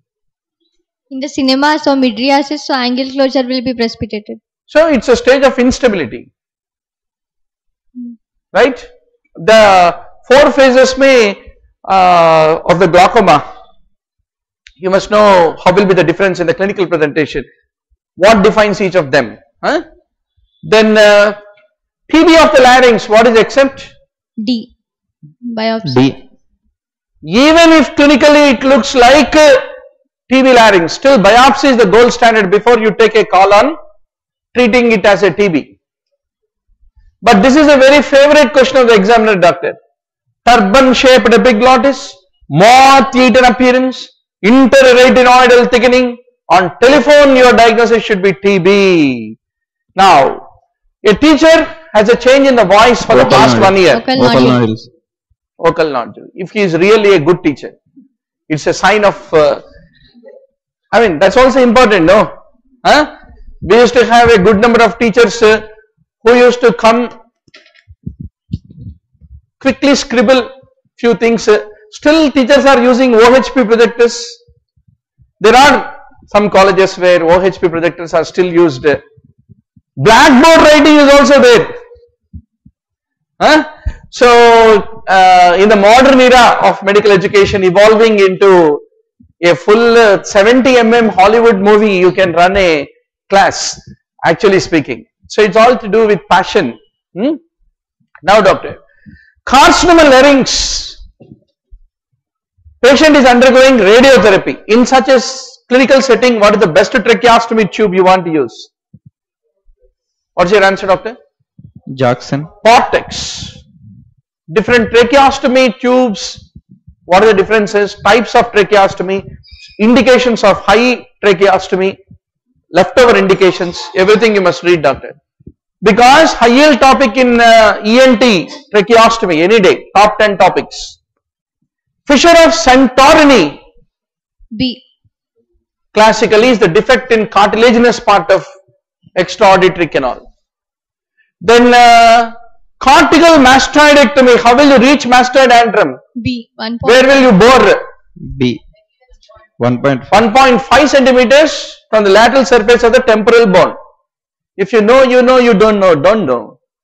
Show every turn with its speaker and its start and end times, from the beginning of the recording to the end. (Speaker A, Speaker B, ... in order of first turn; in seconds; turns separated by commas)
Speaker A: 1.1-4.4, Speaker B: 4.7-6.3, Speaker B: 8.5-8.8, Speaker B: 9.4-13.4, Speaker B: 14.8-17.4, Speaker B: 18.2-19.8, Speaker B: 20.6-21.4, Speaker B: 22.1-23.9, Speaker A: 24.4-24.7, Speaker A: 25.4-26.1, Speaker C: 25.8-26.1, Speaker B: 27.2-29.7, Speaker B: 30.3-33.8, Speaker B: 34.5-35.7, Speaker B: 37.2-39.8, Speaker B: 40.4-49.4, Speaker B: 50.0-50.5, Speaker B: 51.0-54.1, Speaker C: 53.1-54.9, Speaker A: 53.9-54.6, Speaker B: 55.6-57.8, Speaker B: 58.5-59.6, Speaker B: 60.9-65.7, Speaker B: 66.2-67.1, Speaker B: 69.6-74.4, Speaker B: 75.4-79.0, Speaker B: 80.0-81.7, Speaker B: 83.4-88.8, Speaker B: 89.4-97.4, Speaker B: 98.2-98.8, Speaker B: 99.5-101.0, Speaker B: 102.8-108.7, Speaker B: 110.3-111.2, Speaker C: 111.9-112.5, Speaker B: 112.6-113.6, Speaker B: 114.5-116.4, Speaker B: 117.1-119.2, Speaker B: 119.8-122.0, Speaker B: 122.7-125.2, Speaker B: 125.8-131.0, Speaker B: 132.1-133.6, Speaker A: 134.5-134.8, Speaker B: 135.9-138.5, Speaker B: 139.2-140.2, Speaker B: 141.4-146.0, Speaker A: 146.2-147.1, Speaker B: 146.8-147.8, Speaker C: 148.2-148.6, Speaker C: 149.6-150.2, Speaker B: 150.1-153.8, Speaker B: 154.6-156.6